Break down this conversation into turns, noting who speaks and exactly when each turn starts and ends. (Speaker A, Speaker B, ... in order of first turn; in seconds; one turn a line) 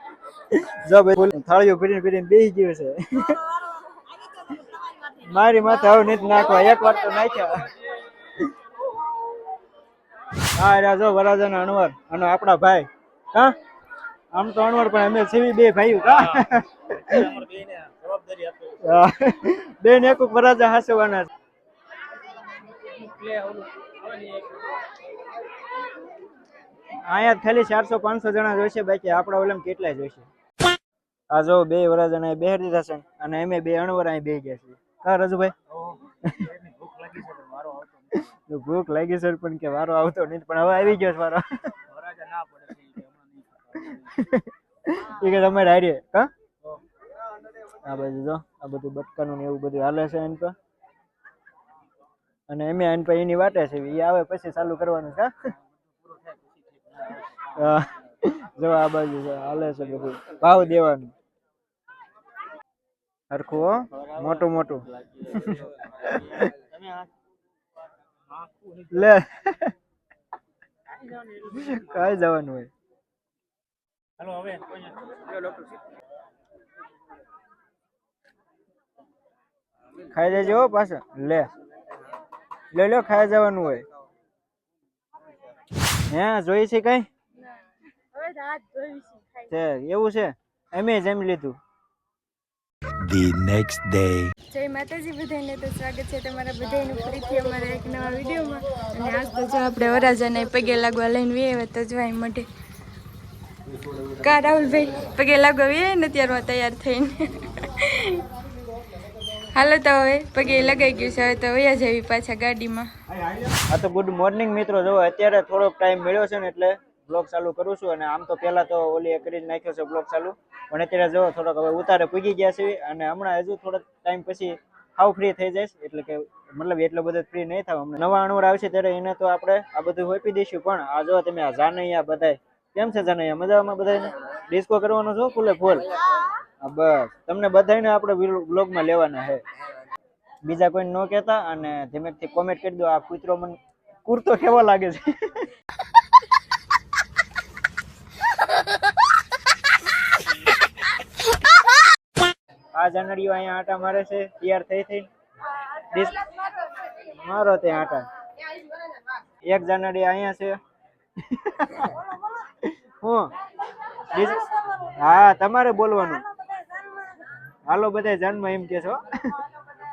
Speaker A: 0.5-3.4
Speaker A: 5.2-7.7
Speaker A: 10.6-13.6
Speaker A: 14.3-17.4
Speaker B: 17.4-18.8
Speaker A: 18.8-21.3
Speaker B: 23.2-23.6
Speaker A: 27.1-30.3
Speaker A: 31.3-35.5
Speaker A: 36.2-36.6
Speaker B: 36.7-38.0
Speaker A: 38.1-41.8
Speaker B: 41.9-43.1
Speaker A: 43.7-46.3
Speaker A: 47.7-50.5
Speaker A: 52.5-55.3
Speaker A: 57.5-61.1
Speaker A: 63.3-66.5
Speaker B: 66.7-67.0
Speaker B: 68.4-68.9
Speaker A: 68.9-69.7
Speaker A: 71.3-72.7
Speaker B: 74.2-75.6
Speaker A: 80.0-81.5
Speaker A: 82.7-83.8
Speaker A: 86.1-87.1
Speaker C: 88.0-89.5
Speaker A: 89.5-91.6
Speaker B: 93.0-94.3
Speaker C: 94.5-102.5
Speaker C: 104.1-108.3
Speaker C: 109.3-112.9
Speaker A: 113.1-135.9
Speaker A: 136.6-139.4
Speaker A: 140.4-145.5
Speaker A: 152.8-155.1
Speaker A: 155.9-156.3
Speaker A: 157.0-158.1
Speaker A: 159.4-160.6
Speaker A: 161.2-163.3
Speaker A: 164.1-166.2
Speaker A: 167.7-169.4